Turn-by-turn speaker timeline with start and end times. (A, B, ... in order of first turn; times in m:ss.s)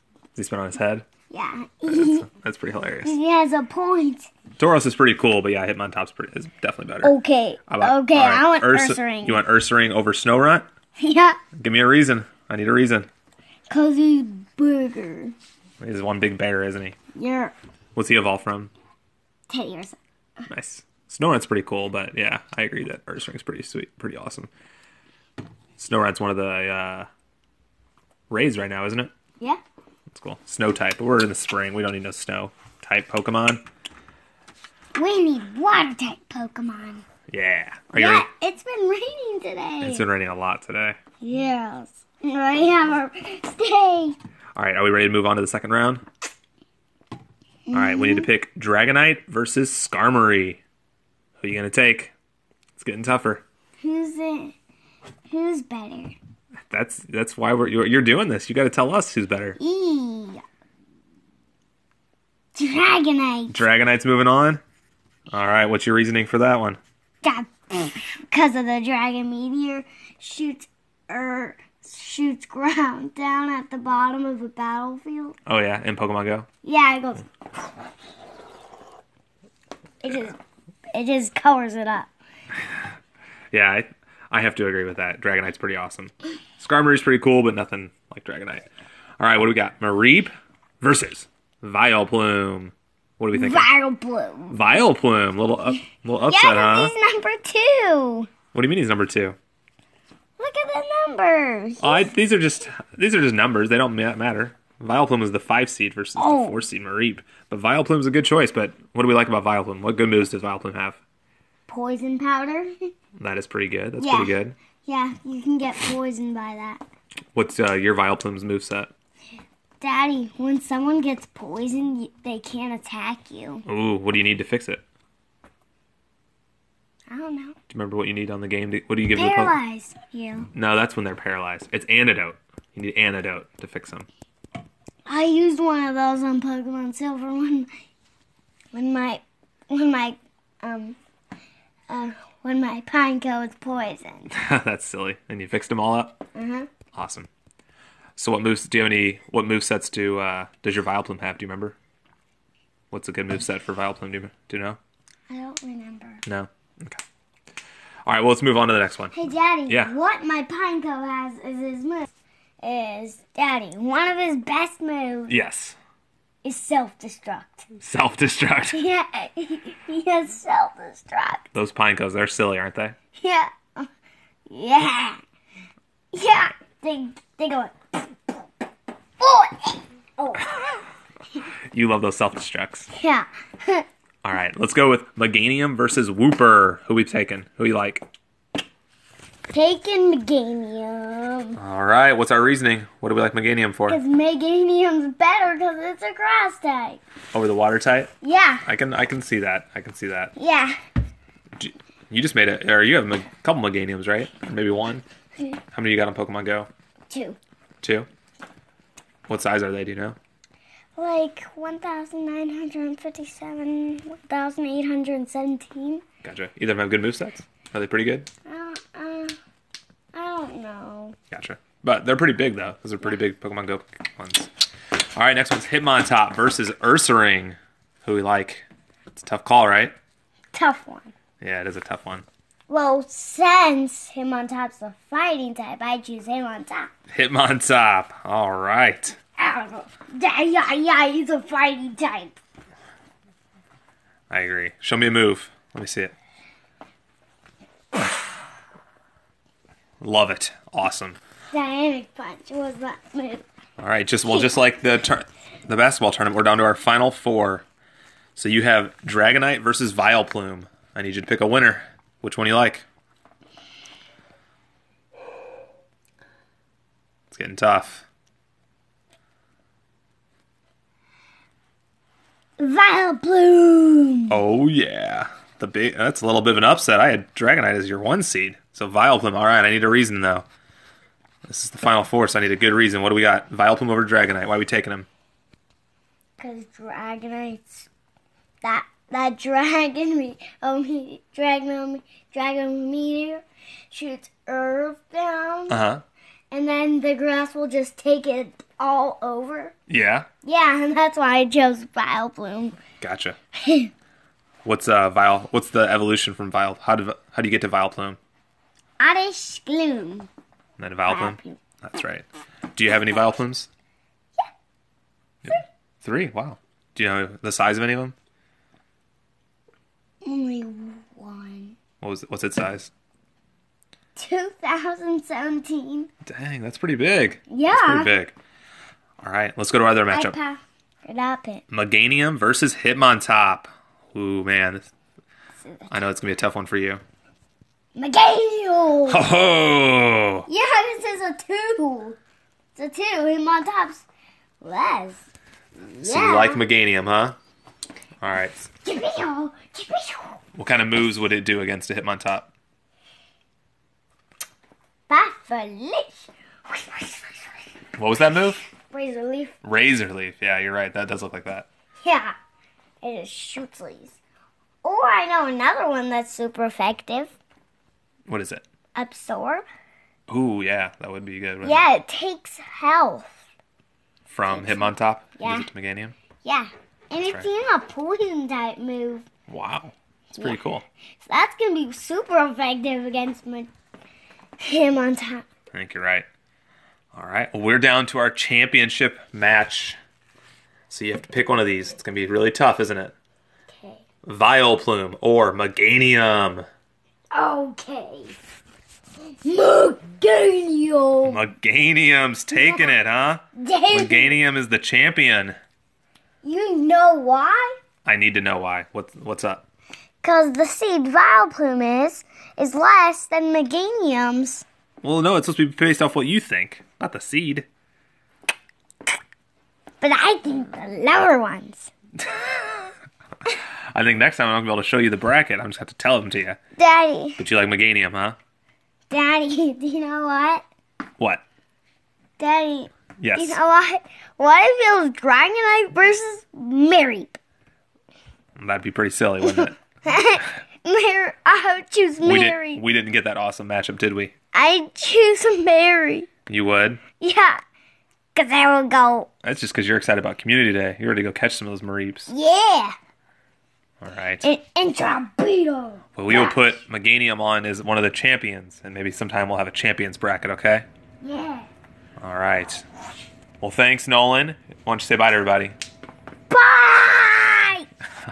0:00.4-0:01.0 A
0:01.3-0:02.3 B
0:01.9-0:03.2 A
0:03.0-0:04.3 B
0:04.6-0:07.1 A
0:07.0-0:09.4 B
0:07.7-0:10.7 A
0:11.0-0:11.4 B
0:11.6-0:13.1 A
0:13.7-0:15.3 B
0:15.8-0:17.0 A
0:17.1-0:17.5 B
0:17.9-0:18.7 A
0:19.5-0:20.0 B
0:20.5-0:24.5 A
0:25.8-0:27.1 A
0:28.3-0:29.1 A
0:30.1-0:33.6 A
0:34.9-0:37.0 B
0:37.3-0:38.2 A
0:38.0-0:40.0 B
0:39.8-0:41.0 A
0:41.2-0:44.2 B
0:44.6-0:46.0 A
0:47.7-0:48.3 B
0:47.7-0:50.6 A
0:51.4-0:52.1 A
0:52.8-0:53.4 A
0:53.8-0:54.5 B
0:55.3-0:56.2 B
0:56.7-0:59.6 A
0:59.6-1:00.4 B
1:02.5-1:03.6 B
1:03.5-1:04.6 A
1:05.3-1:06.8 A
1:07.2-1:15.4 B
1:15.4-1:16.5 A
1:16.6-1:17.3 B
1:20.0-1:20.4 B
1:20.9-1:22.1 B
1:23.5-1:28.7 A
1:29.2-1:33.7 A
1:33.3-1:34.6 B
1:34.5-1:36.9 A
1:36.2-1:38.3 B
1:38.5-1:39.4 A
1:40.4-1:42.1 B
1:41.8-1:51.0 A
1:46.2-1:46.6 B
1:51.7-1:52.9 B
1:53.2-1:54.6 A
1:54.0-1:56.8 B
1:57.3-1:58.9 A
1:59.8-2:03.6 B
2:03.6-2:04.8 A
2:07.1-2:07.6 B
2:07.7-2:09.6 A
2:09.1-2:10.5 B
2:10.5-2:14.1 A
2:15.0-2:17.7 B
2:18.7-2:21.0 B
2:21.9-2:24.3 B
2:24.3-2:26.2 A
2:26.3-2:26.7 B
2:26.9-2:27.3 A
2:28.2-2:31.8 A
2:32.9-2:34.8 A
2:35.3-2:36.2 B
2:36.2-2:37.0 A
2:38.0-2:39.1 A
2:39.1-2:45.3 B
2:39.7-2:39.9 A
2:45.3-2:45.8 A
2:46.4-2:47.6 B
2:47.8-2:48.8 A
2:48.7-2:51.5 B
2:51.5-2:52.9 A
2:53.2-2:53.9 B
2:54.5-2:55.2 B
2:56.1-2:58.4 B
2:59.2-3:00.8 B
3:01.7-3:02.9 A
3:02.9-3:03.8 B
3:04.2-3:08.1 A
3:09.5-3:11.6 B
3:11.6-3:14.0 A
3:13.9-3:17.0 B
3:17.3-3:18.1 A
3:18.2-3:18.6 B
3:18.6-3:20.3 A
3:20.4-3:20.7 B
3:21.6-3:25.0 A
3:25.7-3:26.7 A
3:27.1-3:27.4 B
3:27.8-3:28.1 A
3:29.3-3:30.2 A
3:31.0-3:36.0 B
3:36.2-3:38.3 A
3:38.4-3:39.3 B
3:40.1-3:41.1 B
3:41.3-3:44.5 A
3:45.1-3:49.9 A
3:50.5-3:51.1 B
3:51.4-3:52.2 A
3:52.7-3:56.9 B
3:57.1-3:59.2 A
3:59.4-4:02.4 B
4:04.3-4:06.1 A
4:10.0-4:11.2 A
4:11.5-4:13.4 B
4:13.8-4:17.6 A
4:18.3-4:22.8 A
4:27.3-4:28.0 A
4:32.6-4:34.4 B
4:34.3-4:40.4 A
4:41.5-4:45.1 A
4:46.4-4:47.9 B
4:48.6-4:55.8 B
4:55.7-4:56.0 A
4:56.5-4:59.7 B
4:59.9-5:00.3 A
5:00.4-5:02.8 B
5:03.0-5:03.4 A
5:03.6-5:03.9 B
5:04.6-5:08.2 A
5:09.0-5:10.3 B
5:10.8-5:13.7 A
5:11.1-5:11.6 B
5:15.4-5:18.1 A
5:20.2-5:21.8 B
5:22.0-5:22.9 A
5:24.2-5:26.1 B
5:26.2-5:28.3 A
5:27.5-5:28.1 B
5:29.2-5:30.3 A
5:30.1-5:31.6 B
5:31.7-5:34.9 A
5:35.9-5:37.0 A
5:37.9-5:39.2 B
5:39.1-5:40.5 A
5:40.5-5:42.2 B
5:42.8-5:44.0 B
5:44.6-5:45.2 B
5:45.8-5:46.6 B
5:46.0-5:47.4 A
5:48.2-5:48.7 A
5:48.8-5:50.4 B
5:50.6-5:52.5 A
5:55.1-5:57.5 B
5:58.0-5:58.6 A
5:58.9-5:59.6 B
5:59.6-6:01.7 A
6:02.0-6:02.3 B
6:03.0-6:04.2 B
6:04.8-6:07.3 B
6:08.3-6:08.6 A
6:08.9-6:09.7 B
6:10.3-6:11.8 A
6:11.6-6:13.4 B
6:14.3-6:16.2 A
6:14.5-6:15.7 B
6:16.4-6:19.2 B
6:19.5-6:20.8 A
6:20.3-6:20.6 B
6:21.2-6:23.7 B
6:24.6-6:25.4 B
6:25.7-6:26.2 A
6:27.1-6:30.0 A
6:30.9-6:33.1 A
6:33.7-6:34.0 B
6:34.2-6:36.6 A
6:37.3-6:38.4 B
6:39.4-6:41.4 B
6:41.2-6:45.6 A
6:42.5-6:42.9 B
6:43.6-6:44.4 B
6:46.4-6:47.7 B
6:48.0-6:49.6 A
6:50.2-6:54.6 B
6:55.0-6:57.7 A
7:00.0-7:01.9 B
7:02.2-7:02.5 A
7:03.5-7:06.6 A
7:06.8-7:07.4 B
7:07.4-7:08.4 A
7:09.1-7:10.6 B
7:12.4-7:17.4 B
7:13.2-7:13.6 A
7:18.6-7:19.8 A
7:19.4-7:22.8 B
7:22.2-7:24.3 A
7:24.5-7:26.3 B
7:26.5-7:27.0 A
7:27.2-7:27.6 B
7:28.3-7:29.3 B
7:29.4-7:32.3 A
7:32.3-7:32.9 B
7:34.0-7:34.5 A
7:34.4-7:36.7 B
7:36.2-7:40.8 A
7:41.2-7:41.7 B
7:42.2-7:42.8 A
7:43.6-7:45.7 A
7:46.5-7:47.8 B